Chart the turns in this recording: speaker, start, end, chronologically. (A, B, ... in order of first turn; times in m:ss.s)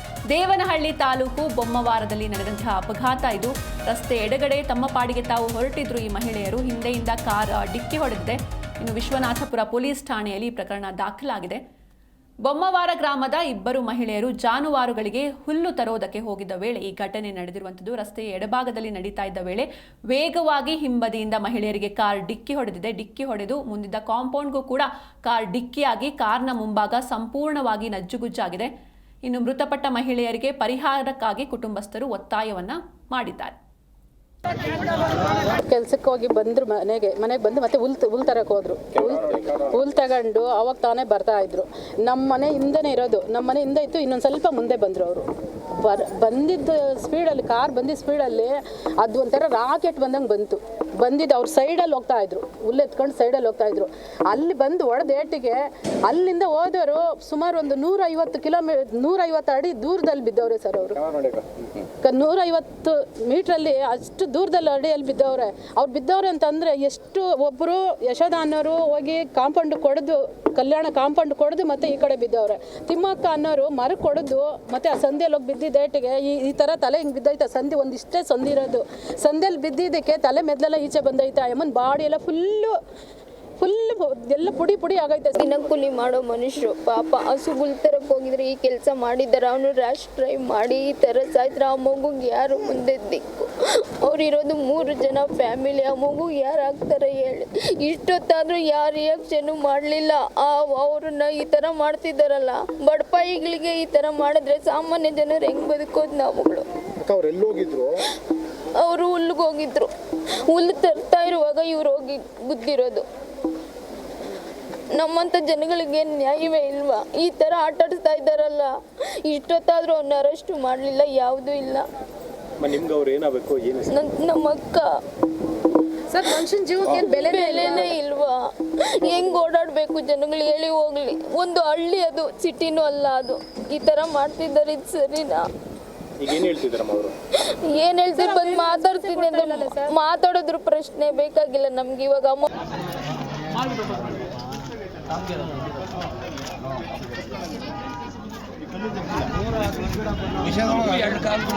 0:00.3-0:11.6 A
0:12.4-0:28.7 A
0:29.2-0:33.5 A
0:35.7-0:45.2 B
0:39.3-0:39.6 C
0:45.8-1:01.0 B
1:01.1-1:01.6 C
1:02.0-1:22.8 B
1:23.6-1:25.6 B
1:25.4-1:33.5 D
1:34.0-1:46.6 D
1:47.0-1:47.9 C
1:48.8-1:49.9 D
1:50.4-1:53.0 D
1:54.9-1:58.7 D
1:59.3-2:01.8 D
2:02.6-2:03.9 C
2:03.9-2:04.9 D
2:06.1-2:08.0 B
2:07.0-2:15.5 D
2:16.2-2:17.1 C
2:17.5-2:22.4 D
2:18.2-2:19.9 B